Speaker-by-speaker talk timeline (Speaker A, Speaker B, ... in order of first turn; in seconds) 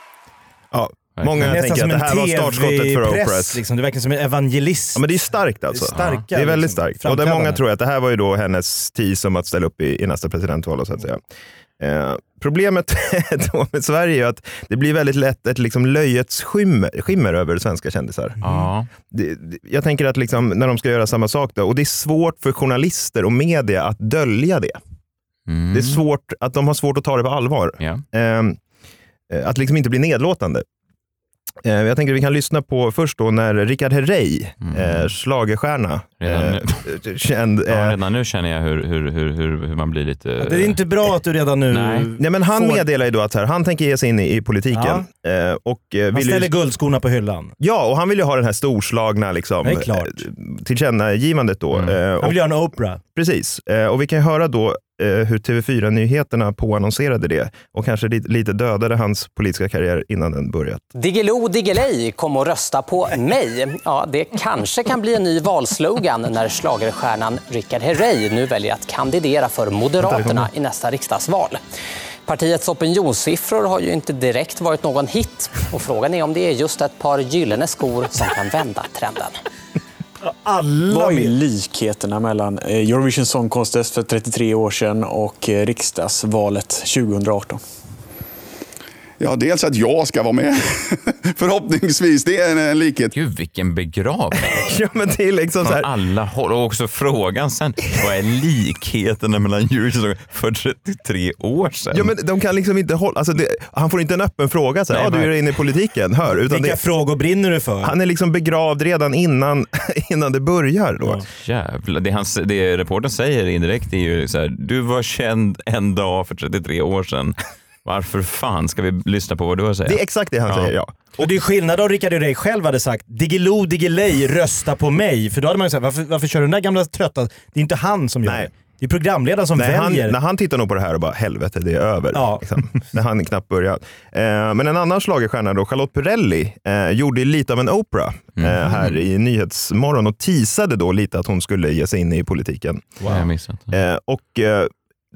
Speaker A: 0.7-3.6, 4.9-11.2, 11.8-18.4, 19.1-24.8, 25.7-28.6, 29.3-30.6, 31.6-38.0, 42.2-46.5, 47.6-52.4, 53.1-60.8, 94.4-95.9, 101.9-106.8, 107.8-111.2, 119.8-121.1, 128.2-128.5, 129.6-143.0, 143.7-144.7
Speaker B: 1.2-1.6, 18.4-18.9, 25.5-26.0, 34.6-35.1, 36.2-36.8, 37.7-40.8, 41.7-42.1, 93.1-94.5, 95.6-102.1, 104.9-105.3, 111.3-120.7, 138.4-138.9, 143.0-143.7
Speaker C: 1.4-7.6, 40.4-42.8, 44.7-45.0, 46.1-47.5, 49.6-50.2, 52.2-53.0, 80.2-81.3, 106.4-107.9, 121.2-130.2, 132.1-132.5
Speaker D: 61.0-71.6, 72.2-79.3
Speaker E: 80.9-87.6
Speaker F: 89.2-93.1